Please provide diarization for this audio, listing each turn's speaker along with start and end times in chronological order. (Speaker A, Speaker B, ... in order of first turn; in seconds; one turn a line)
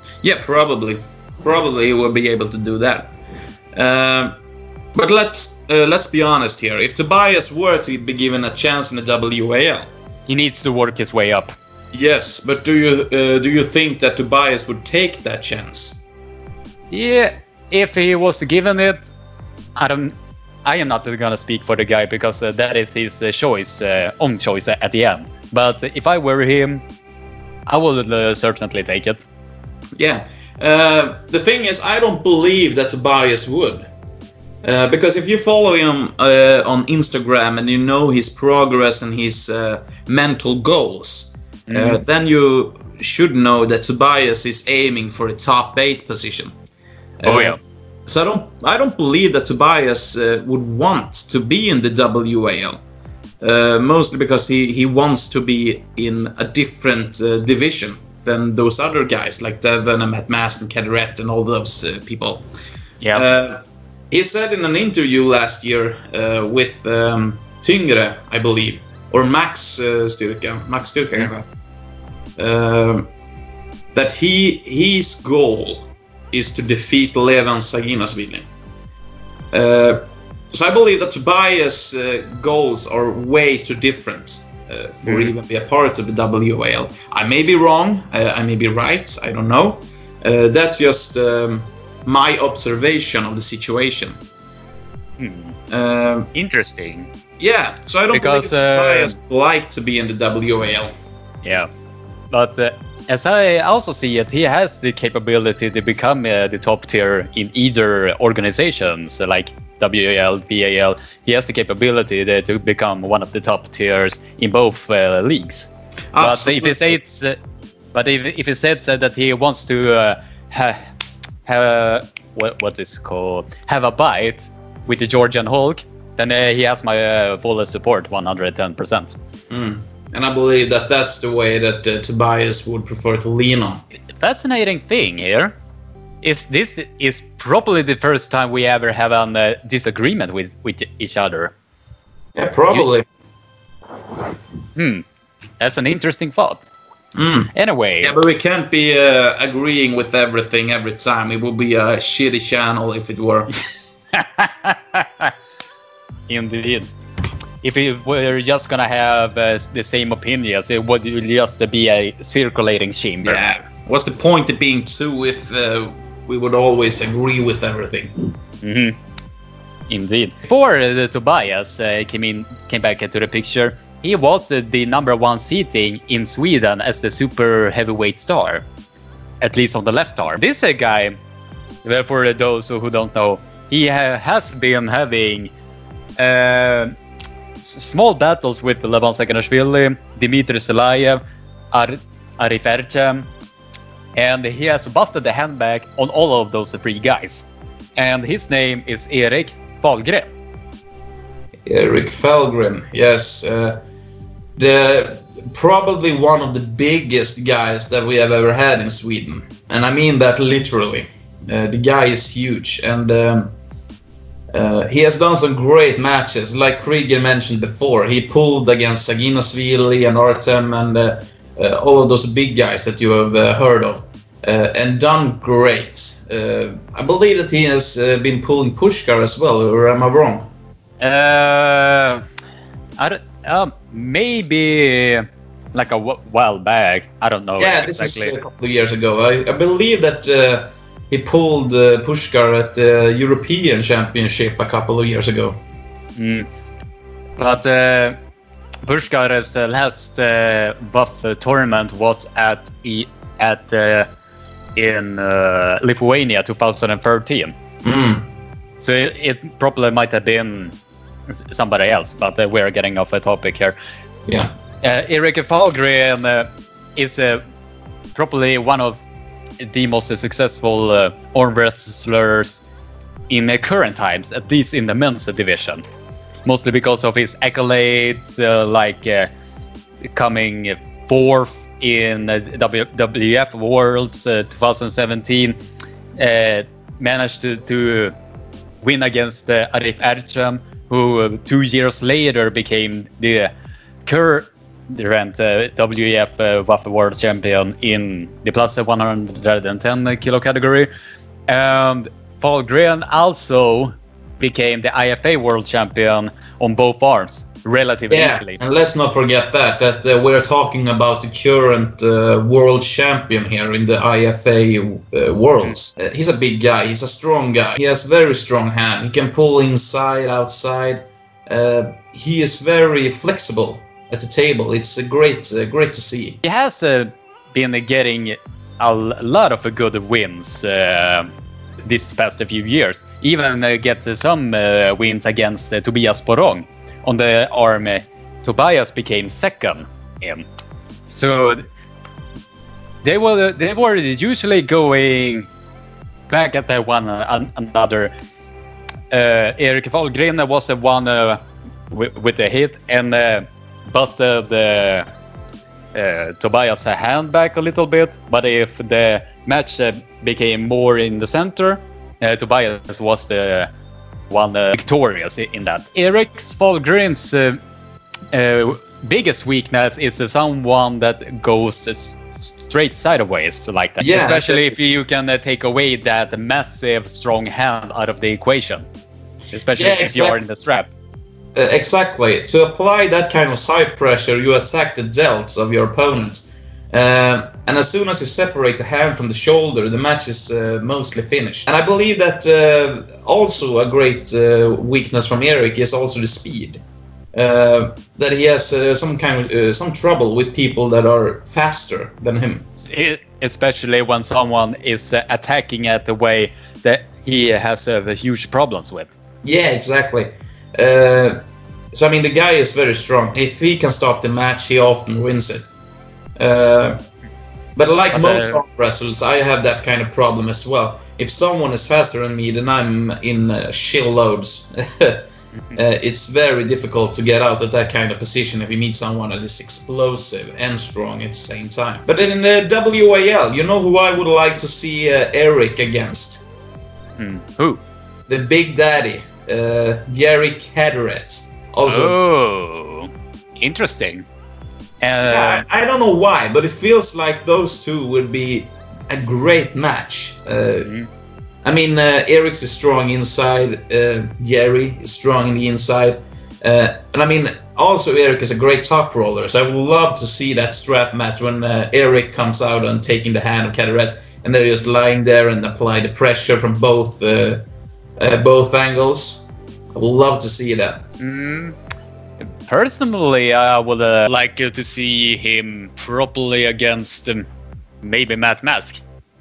Speaker A: 0.2-3.1
Speaker A: 3.7-4.3
Speaker A: 4.9-9.9
Speaker B: 10.3-11.5
Speaker A: 11.9-16.0
Speaker B: 16.9-19.1
Speaker B: 19.8-20.1
Speaker B: 20.6-26.8
Speaker B: 27.7-29.2
Speaker A: 30.0-33.9
Speaker A: 34.6-46.5
Speaker B: 41.7-42.0
Speaker A: 47.2-52.8
Speaker B: 47.2-47.6
Speaker A: 53.4-62.4
Speaker A: 63.1-71.4
Speaker A: 72.4-73.0
Speaker A: 73.9-78.5
Speaker A: 79.5-94.2
Speaker B: 85.0-85.3
Speaker B: 95.2-95.5
Speaker A: 95.7-96.3
Speaker B: 96.3-97.1
Speaker A: 97.4-100.9
Speaker B: 98.1-99.2
Speaker B: 101.4-101.7
Speaker B: 102.3-117.4
Speaker A: 116.1-117.0
Speaker B: 117.9-120.8
Speaker B: 121.5-129.2
Speaker A: 129.5-133.8
Speaker B: 134.2-135.6
Speaker B: 136.2-141.5
Speaker A: 142.3-143.0
Speaker B: 144.7-145.0
Speaker B: 145.6-146.6
Speaker A: 147.1-147.5
Speaker B: 147.5-148.2
Speaker A: 148.0-153.5
Speaker B: 154.1-155.3
Speaker B: 156.3-156.9
Speaker B: 157.6-163.4
Speaker A: 163.2-168.3
Speaker B: 168.6-169.0
Speaker B: 169.9-178.6
Speaker B: 179.4-181.1
Speaker B: 181.8-185.5
Speaker B: 186.2-186.9
Speaker B: 187.6-193.3
Speaker B: 194.2-197.4
Speaker B: 198.0-200.3
Speaker A: 201.7-203.8
Speaker A: 204.6-213.5
Speaker A: 214.5-230.5
Speaker B: 231.0-232.2
Speaker B: 233.0-238.3
Speaker A: 237.6-245.6
Speaker B: 246.2-246.5
Speaker B: 247.4-248.2
Speaker B: 248.8-254.1
Speaker B: 254.8-257.5
Speaker A: 257.8-258.2
Speaker B: 258.8-260.7
Speaker B: 261.3-263.8
Speaker B: 264.8-267.4
Speaker B: 268.1-269.0
Speaker B: 269.6-272.6
Speaker B: 273.3-275.8
Speaker B: 276.4-279.3
Speaker B: 280.1-285.6
Speaker B: 286.2-288.1
Speaker B: 288.8-293.5
Speaker B: 294.1-300.9
Speaker B: 301.5-308.6
Speaker A: 308.1-326.4
Speaker B: 326.4-331.3
Speaker B: 331.8-340.4
Speaker B: 341.1-341.6
Speaker B: 343.0-345.5
Speaker B: 346.3-348.1
Speaker B: 349.1-355.1
Speaker B: 355.9-363.7
Speaker B: 364.3-367.6
Speaker B: 368.3-378.8
Speaker A: 374.0-374.7
Speaker B: 379.5-380.9
Speaker A: 379.8-380.4
Speaker A: 381.5-396.8
Speaker A: 397.3-402.6
Speaker B: 402.8-409.1
Speaker A: 409.4-411.4
Speaker A: 411.9-415.7
Speaker A: 416.4-417.0
Speaker A: 417.8-436.4
Speaker B: 418.1-418.6
Speaker B: 437.2-437.8
Speaker A: 438.3-442.2
Speaker B: 441.9-444.2
Speaker B: 445.0-445.6
Speaker A: 445.2-450.9
Speaker B: 450.8-451.1
Speaker A: 451.6-467.6
Speaker A: 468.2-471.0
Speaker B: 471.2-471.8
Speaker B: 472.6-477.4
Speaker B: 478.0-479.0